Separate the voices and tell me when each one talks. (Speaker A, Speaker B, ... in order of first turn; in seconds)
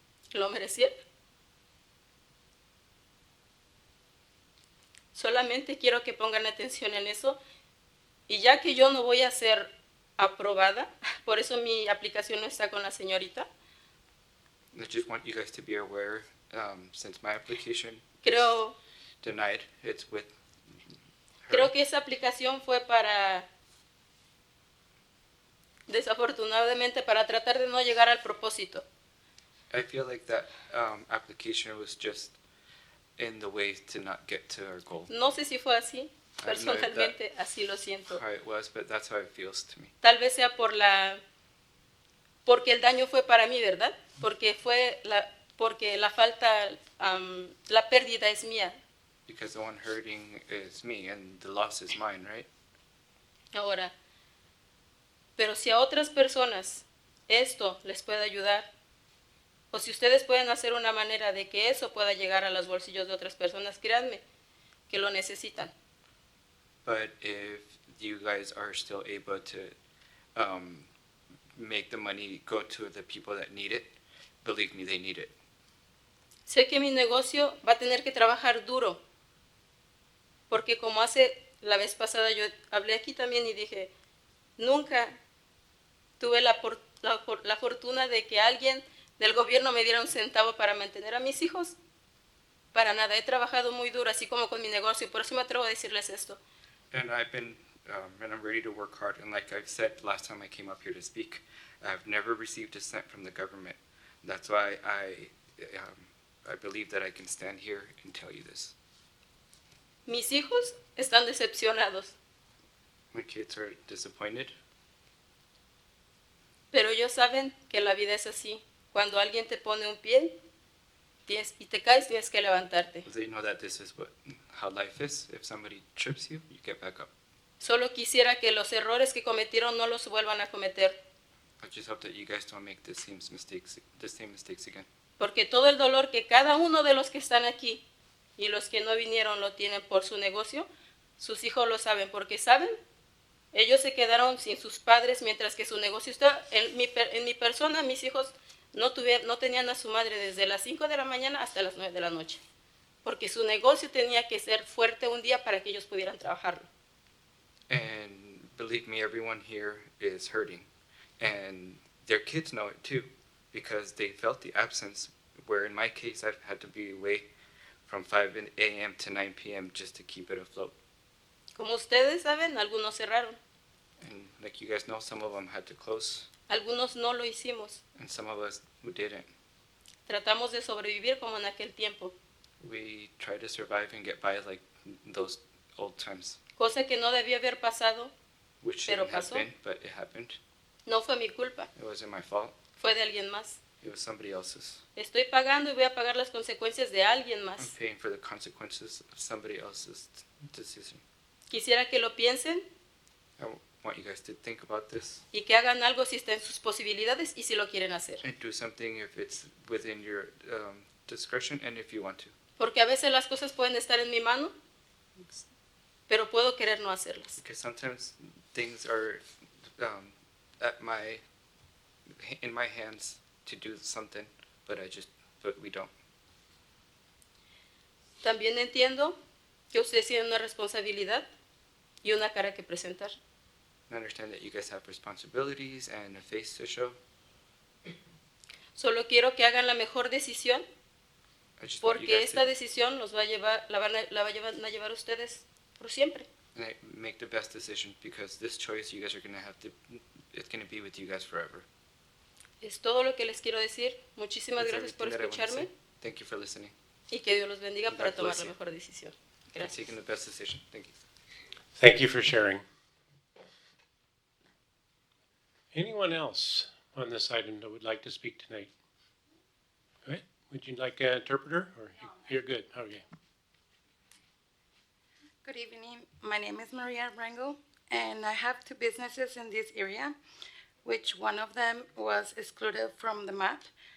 Speaker A: 0.3-0.9, 5.1-7.4, 8.3-13.5, 18.2-18.8, 21.5-23.5, 25.9-28.8, 35.1-38.2, 40.0-41.2, 42.5-48.8, 53.5-53.9, 55.4-58.7, 59.7-64.2, 64.9-65.7, 76.5-79.0, 80.5-83.9, 84.6-85.2, 86.2-91.8, 92.7-96.4, 110.1-112.2, 116.7-120.4, 121.3-123.1, 127.6-131.0, 135.2-137.8, 138.4-142.8, 143.5-152.4, 153.0-156.7, 171.6-173.4, 176.5-177.8, 180.1-182.1, 186.6-188.1, 188.9-189.5, 190.9-191.7, 192.8-193.6, 195.0-197.7, 201.5-202.7, 205.3-208.2, 212.6-214.5, 216.1-217.4, 228.2-229.2, 229.7-231.3, 232.0-233.2, 238.8-240.7, 241.8-246.3, 252.6-255.7, 257.1-259.8
Speaker B: 14.7-18.1, 19.2-20.3, 21.4-21.7, 29.7-32.4, 33.2-35.1, 36.4-37.2, 38.1-39.9, 49.3-52.5, 66.8-69.7, 70.4-70.9, 71.6-75.3, 96.9-108.8, 113.1-114.5, 123.1-127.1, 131.6-134.9, 157.7-160.7, 161.2-167.3, 167.9-170.8, 174.0-176.3, 178.0-179.3, 182.6-186.4, 188.6-190.4, 191.8-192.6, 193.8-194.8, 197.6-201.0, 203.4-205.2, 208.2-212.3, 217.4-219.2, 219.8-221.2, 222.2-225.9, 233.9-237.0, 241.6-242.5, 246.6-251.7, 254.6-256.7, 257.9-258.5, 259.6-260.9
Speaker C: 261.8-262.6, 265.7-268.7, 270.1-273.0
Speaker D: 275.4-280.2, 280.8-283.7